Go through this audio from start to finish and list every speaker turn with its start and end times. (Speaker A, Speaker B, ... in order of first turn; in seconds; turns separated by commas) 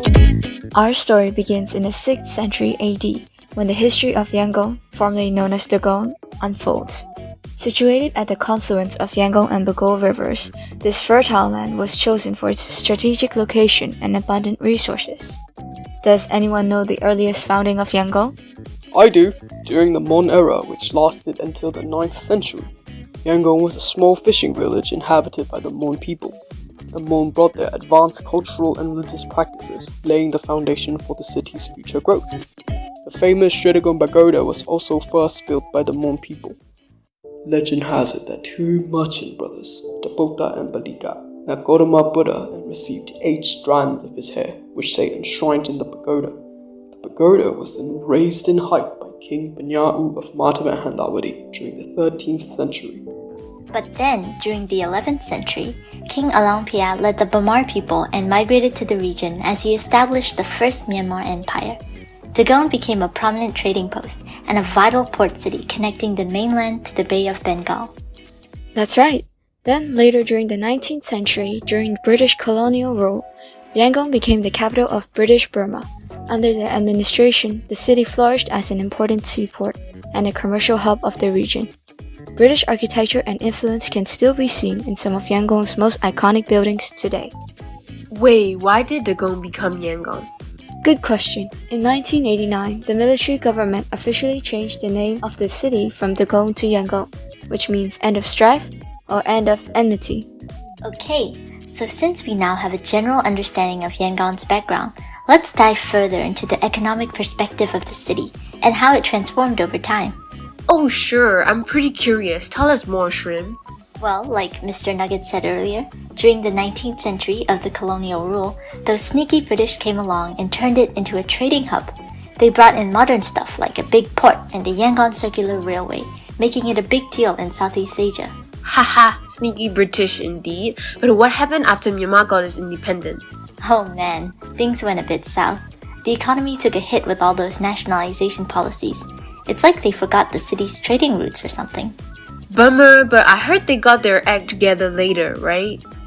Speaker A: 0.7-7.1, Speaker A: 7.6-15.4, Speaker A: 16.0-18.4, Speaker B: 18.9-22.7, Speaker B: 23.2-26.4, Speaker B: 26.9-32.3, Speaker B: 33.0-36.6, Speaker B: 37.5-46.4, Speaker B: 46.9-53.0, Speaker C: 53.7-61.8, Speaker C: 62.3-67.9, Speaker A: 68.8-81.7, Speaker A: 82.4-87.3, Speaker D: 88.1-90.3, Speaker A: 90.8-100.3, Speaker C: 100.8-110.2, Speaker D: 110.7-113.6, Speaker C: 114.0-128.3, Speaker D: 128.7-133.4, Speaker C: 133.6-141.9, Speaker D: 142.5-145.8